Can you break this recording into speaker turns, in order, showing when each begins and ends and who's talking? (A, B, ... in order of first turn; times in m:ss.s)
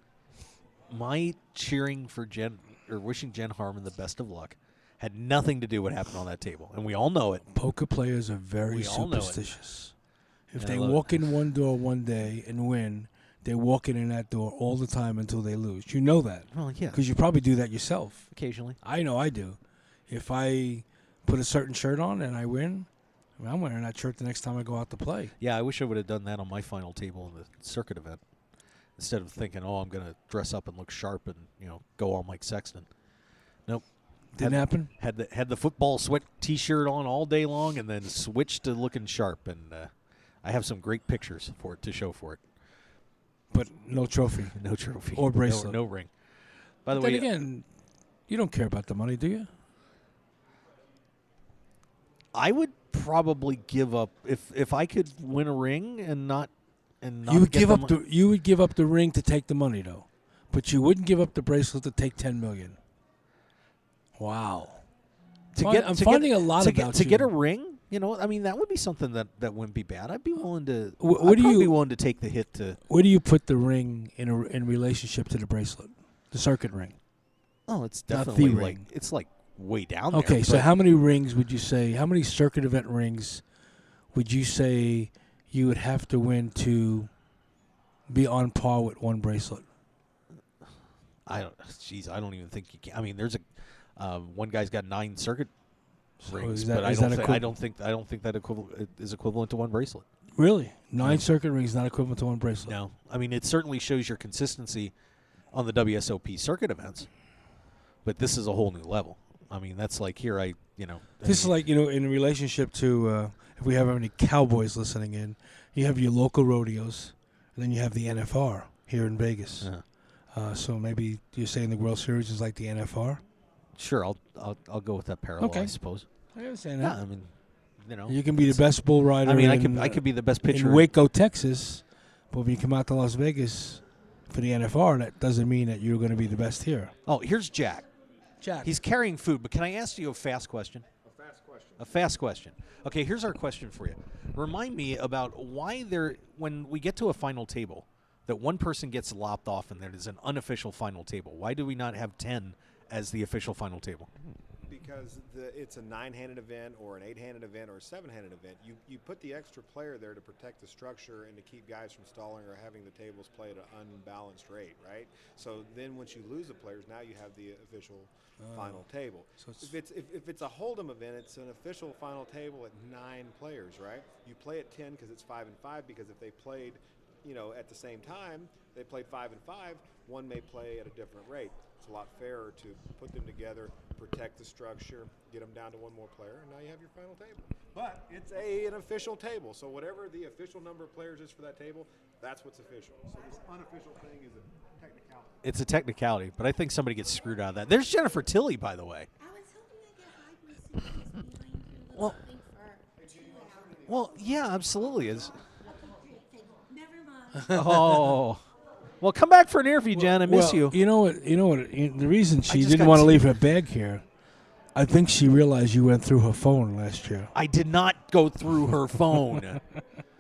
0:00.9-0:07.4 A
0:07.5-0:09.9 B
0:08.6-0:09.4 A
0:10.5-0:18.3 B
0:10.6-0:11.2 A
0:16.5-0:17.0 A
0:18.3-0:18.8 A
0:18.8-0:25.4 B
0:25.4-0:28.2 A
0:29.0-0:32.9 A
0:33.7-0:39.9 A
0:34.4-0:34.9 B
0:40.4-0:42.4 A
0:43.5-0:44.6 B
0:44.5-0:46.1 A
0:45.1-0:45.8 B
0:46.8-0:47.3 A
0:46.9-0:47.7 B
0:48.3-0:49.5 B
0:52.3-0:58.0 A
0:57.3-1:02.8 B
1:04.2-1:04.9 B
1:05.6-1:12.8 A
1:05.6-1:07.3 B
1:11.0-1:11.8 B
1:12.9-1:17.0 B
1:17.7-1:20.7 A
1:18.1-1:18.9 B
1:20.1-1:23.4 B
1:24.1-1:27.1 B
1:28.1-1:29.6 B
1:31.3-1:35.5 A
1:36.2-1:37.5 B
1:36.3-1:40.0 A
1:40.4-1:42.8 B
1:42.6-1:44.9 A
1:45.5-1:47.1 A
1:48.0-1:51.6 A
1:51.2-1:59.7 B
2:00.3-2:03.2 B
2:03.8-2:06.1 A
2:05.4-2:05.7 B
2:06.3-2:07.0 B
2:06.8-2:10.9 A
2:08.1-2:16.9 B
2:17.1-2:17.9 A
2:18.4-2:18.7 B
2:18.6-2:20.9 A
2:21.0-2:21.9 C
2:21.8-2:34.1 A
2:34.7-3:15.4 C
2:48.4-2:48.8 B
2:49.4-2:49.7 B
3:15.4-3:19.1 A
3:19.2-3:24.2 D
3:21.9-3:22.2 A
3:23.9-3:25.4 A
3:25.6-3:28.2 D
3:27.5-3:27.7 B
3:27.5-3:28.4 A
3:29.0-3:30.8 A
3:29.9-3:34.0 B
3:32.5-3:33.3 A
3:34.7-3:37.3 B
3:37.3-3:39.6 A